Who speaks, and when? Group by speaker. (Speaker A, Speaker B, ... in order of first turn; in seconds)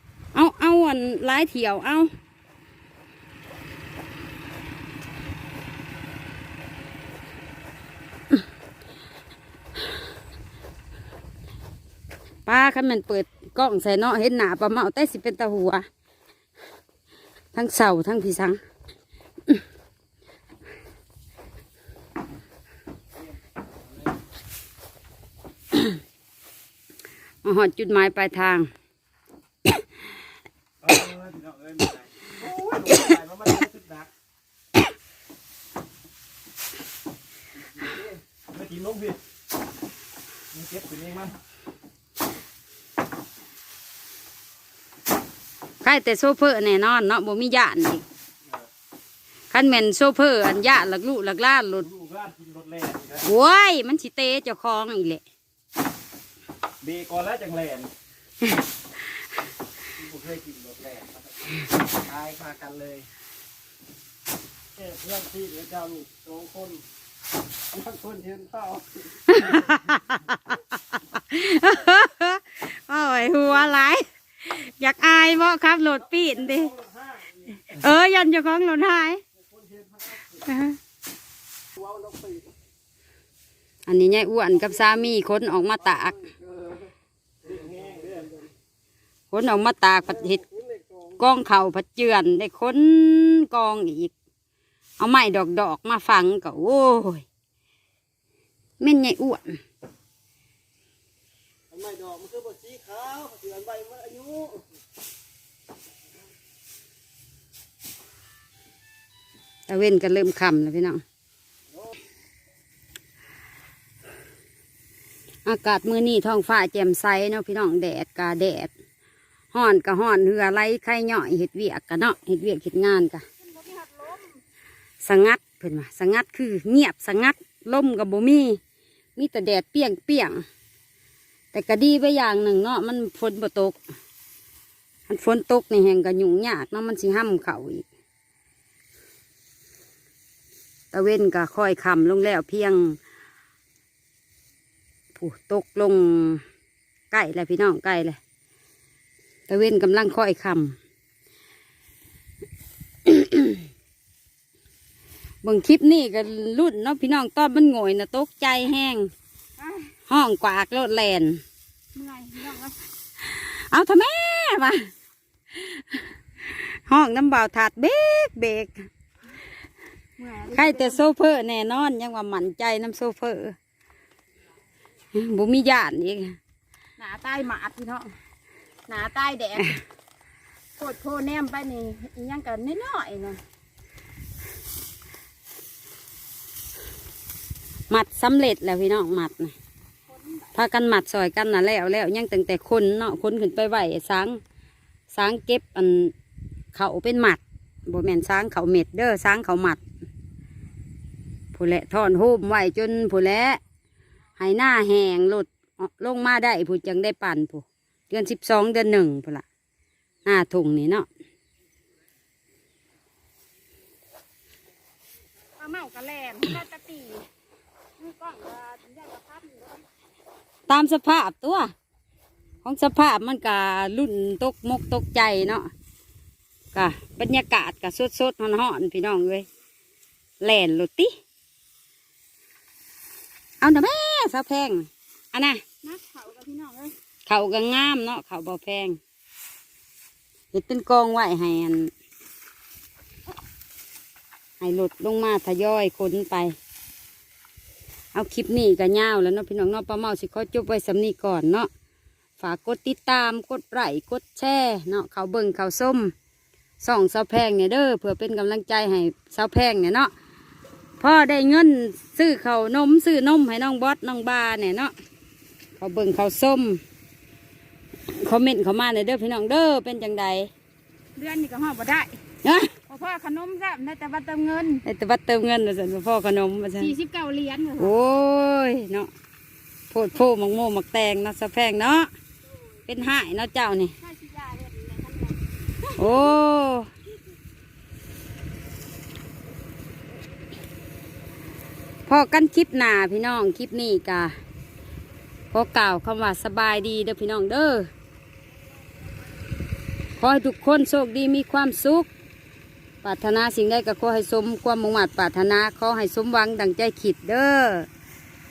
Speaker A: 0.3-2.1, 12.4-15.8, 17.5-18.6, 27.4-28.7, 45.8-48.0, 49.5-51.9, 53.2-55.2, 69.3-70.6, 71.1-76.8, 77.7-79.2, 80.3-80.8, 83.8-86.3, 89.3-90.4, 91.2-94.1, 95.0-97.2, 98.8-99.6, 109.7-111.0, 115.4-118.7, 119.5-123.2, 125.0-128.6, 129.2-130.4, 131.5-133.8, 135.1-137.8, 140.9-143.0, 145.2-146.4, 147.1-148.2, 149.5-150.8, 153.1-153.6, 155.4-159.1, 160.1-161.4, 163.2-164.9, 165.5-168.8, 170.5-173.6, 175.1-176.4, 187.9-189.5, 190.5-194.4, 195.1-196.1, 196.7-199.8, 201.5-203.6, 204.4-209.4, 210.2-211.1, 220.7-221.7, 222.6-225.7, 226.7-229.4, 230.4-231.2, 233.6-235.6, 237.3-239.0, 240.5-241.9, 244.6-246.5, 248.1-251.7, 252.4-256.1, 256.8-260.1, 261.0-264.9, 265.8-266.8, 268.1-270.5, 272.4-272.7, 274.8-276.9, 277.8-279.1, 279.9-282.1, 282.9-283.9, 286.0-286.9, 292.1-294.3, 295.5-297.9, 300.2-302.1, 303.0-307.9
Speaker B: 30.8-34.1, 38.5-39.2, 40.5-41.3, 51.9-53.2, 56.8-57.9, 60.0-61.1, 62.0-63.0, 64.8-66.8, 67.7-68.8, 79.6-80.0, 81.9-82.4, 87.7-88.2, 101.7-104.6
Speaker C: 123.4-124.4, 159.6-159.9, 161.9-162.8, 170.2-171.0, 177.0-178.1, 178.9-179.8, 180.8-183.4, 190.1-190.5, 215.6-217.3, 218.0-219.8, 235.8-236.9, 271.1-272.2, 272.8-274.8, 276.8-277.9, 284.0-286.3